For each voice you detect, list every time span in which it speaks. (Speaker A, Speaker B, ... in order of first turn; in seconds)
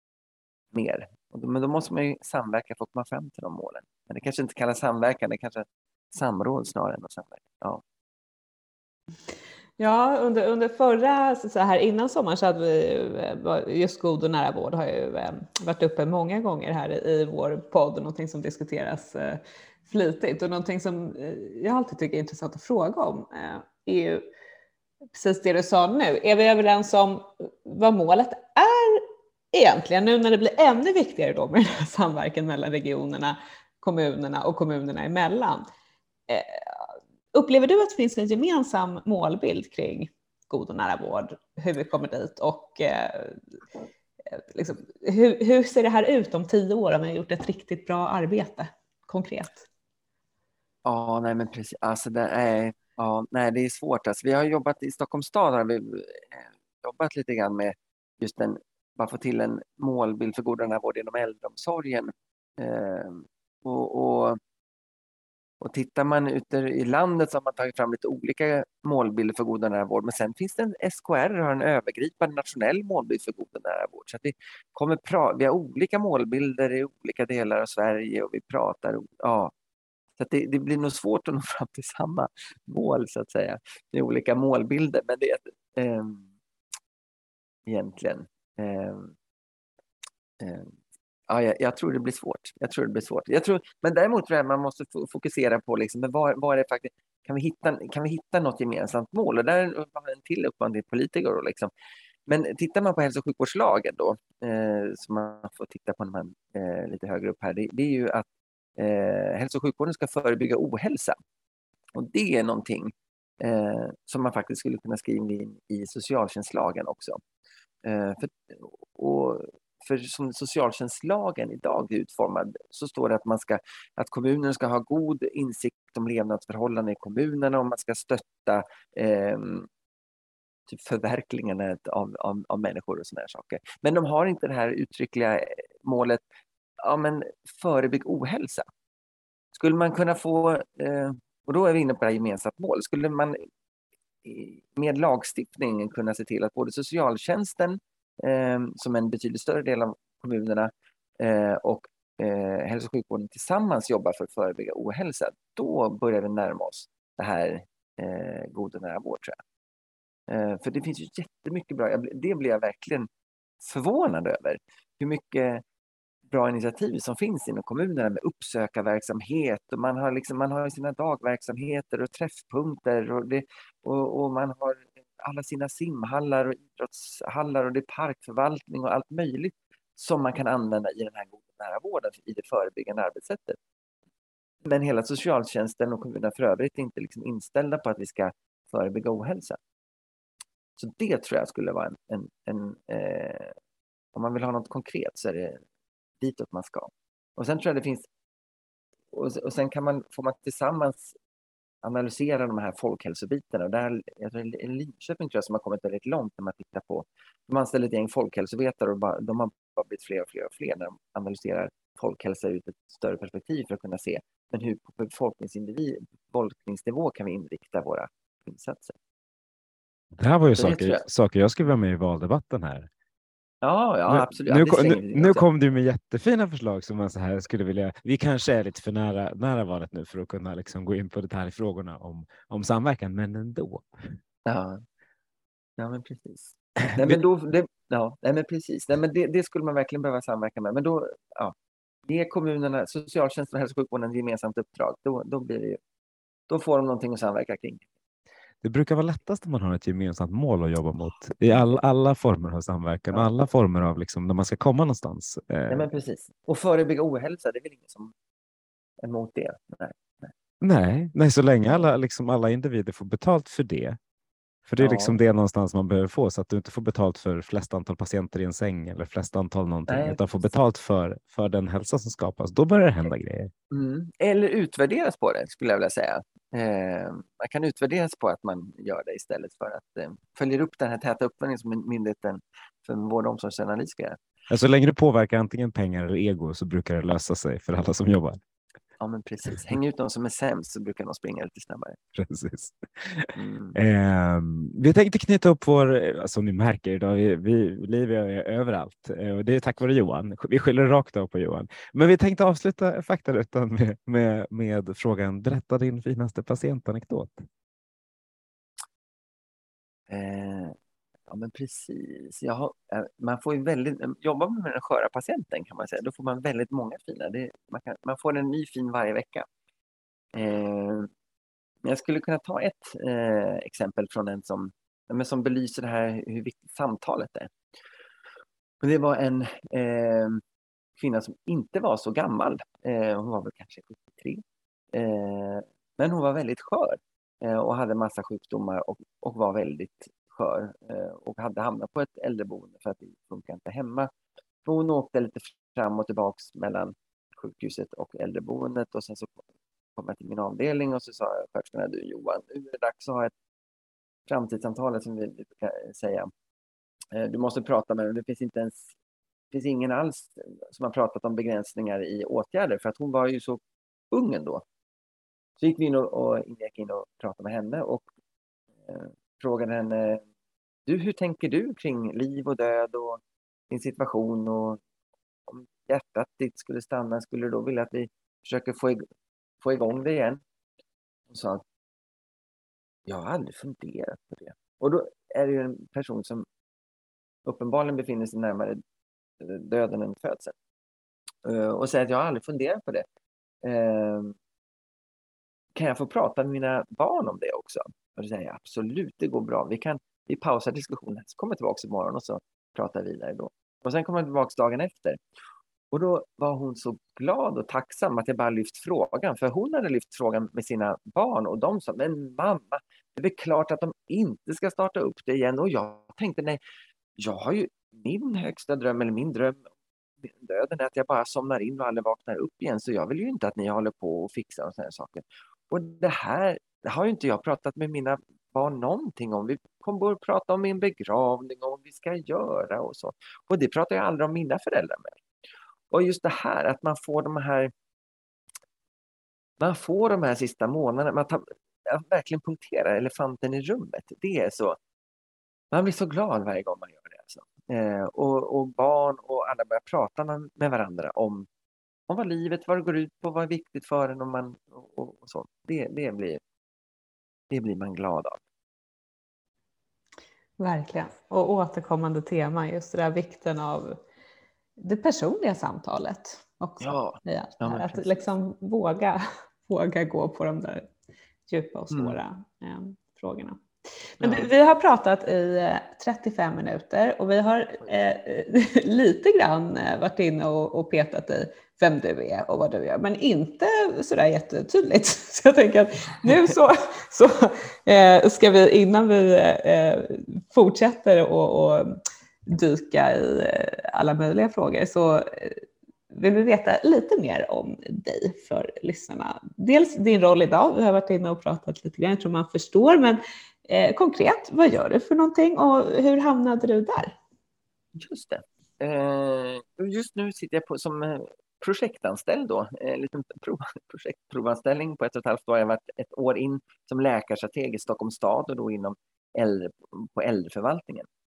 Speaker A: 0.7-7.8, 50.8-64.4, 65.6-79.5, 80.2-86.3, 87.7-89.1, 90.4-90.8, 91.3-101.7, 102.3-111.2, 111.9-117.2, 117.8-129.7, 130.7-136.2, 136.8-138.7, 139.5-143.5, 144.2-159.4, 160.3-163.1, 163.6-165.6, 166.3-183.6, 184.6-189.6, 190.8-193.6, 194.1-195.6, 196.2-198.1, 199.1-201.1, 201.8-218.9, 220.6-221.1, 223.6-225.5, 234.4-234.8, 235.8-241.5, 242.1-245.8, 246.5-247.9, 255.7-258.1, 259.0-260.3, 264.8-265.2, 269.9-270.2, 273.7-284.2, 289.0-292.0, 293.3-293.8, 310.1-310.8, 311.3-319.5, 320.3-321.1, 321.8-327.5, 328.8-330.4, 331.0-344.1, 344.6-349.4, 349.9-353.3, 354.3-356.3, 357.1-358.9, 359.5-364.6, 365.6-368.1, 368.8-370.2, 370.9-374.8, 375.5-379.0, 379.6-380.4, 381.3-381.6, 383.1-386.4, 387.4-388.8, 389.4-390.5, 391.4-393.1, 393.6-394.4, 395.7-405.2, 405.9-416.6, 417.2-419.7, 420.2-435.2, 435.9-437.7, 439.6-444.8, 445.7-451.5, 452.1-456.4, 457.5-458.4, 466.8-468.2, 471.9-472.2, 474.2-474.5, 507.9-521.1
Speaker B: 9.8-24.2, 25.1-35.7, 36.3-43.4, 44.3-49.6, 460.6-464.0, 464.8-470.9, 471.5-473.6, 474.2-507.1
Speaker C: 220.2-222.9, 224.1-234.2, 248.6-255.9, 260.6-264.0, 264.7-273.5, 284.5-288.4, 292.1-307.4